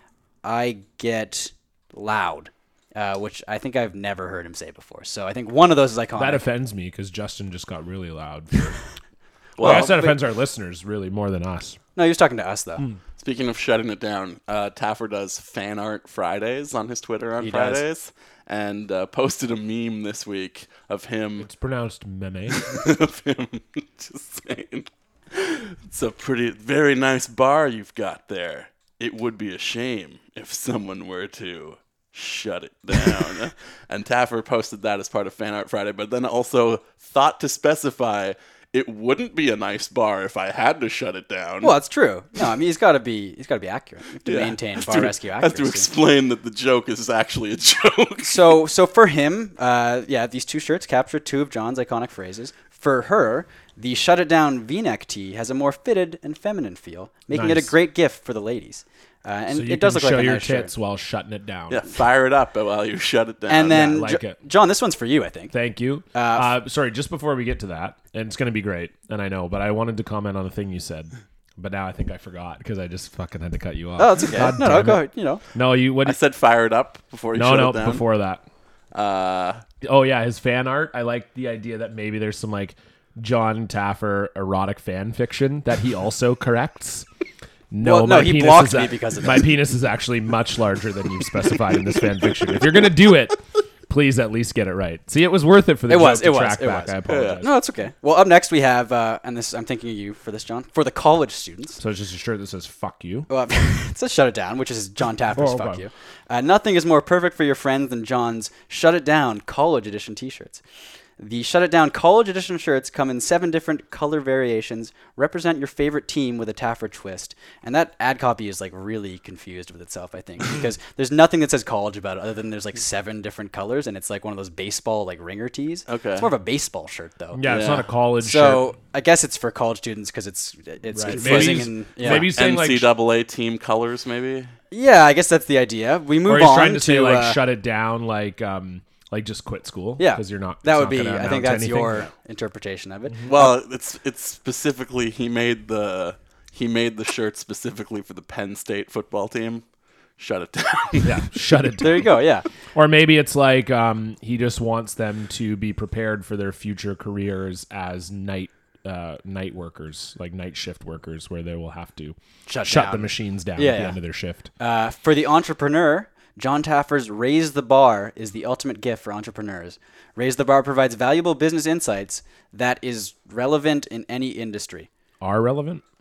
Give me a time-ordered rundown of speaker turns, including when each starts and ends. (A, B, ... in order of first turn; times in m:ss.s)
0:00.4-0:06.4 A
0:06.2-0:08.8 B
0:09.6-0:10.1 C
0:09.6-0:10.1 A
0:09.6-0:11.8 B
0:12.0-0:12.8 A
0:13.2-0:21.5 C
0:17.4-0:17.8 A
0:21.4-0:22.7 B
0:22.5-0:41.7 C
0:41.6-0:45.9 A
0:44.2-0:48.6 C
0:48.2-1:00.7 A
0:57.3-0:57.7 B
0:59.5-1:01.8 B
1:01.7-1:03.9 C
1:03.5-1:05.5 A
1:03.6-1:04.4 B
1:05.5-1:16.2 B
1:06.1-1:06.5 A
1:14.0-1:15.4 A
1:16.0-1:18.0 C
1:17.3-1:18.4 B
1:18.9-1:19.6 C
1:19.8-1:27.1 B
1:27.7-1:37.5 B
1:27.8-1:29.5 A
1:35.9-1:41.8 A
1:37.1-1:37.4 C
1:41.8-1:43.3 B
1:43.3-1:50.6 A
1:45.4-1:45.8 B
1:51.2-2:07.6 A
2:05.9-2:06.3 C
2:07.3-2:08.6 B
2:07.4-2:07.8 C
2:08.2-2:12.3 A
2:10.9-2:12.9 B
2:11.1-2:14.5 C
2:14.7-2:17.4 A
2:16.2-2:22.1 B
2:20.0-2:23.6 A
2:23.3-2:29.6 C
2:30.2-2:31.2 C
2:31.0-2:32.2 B
2:31.8-2:32.4 A
2:32.7-2:44.5 B
2:42.5-2:44.0 A
2:44.6-2:54.9 A
2:55.2-2:55.8 B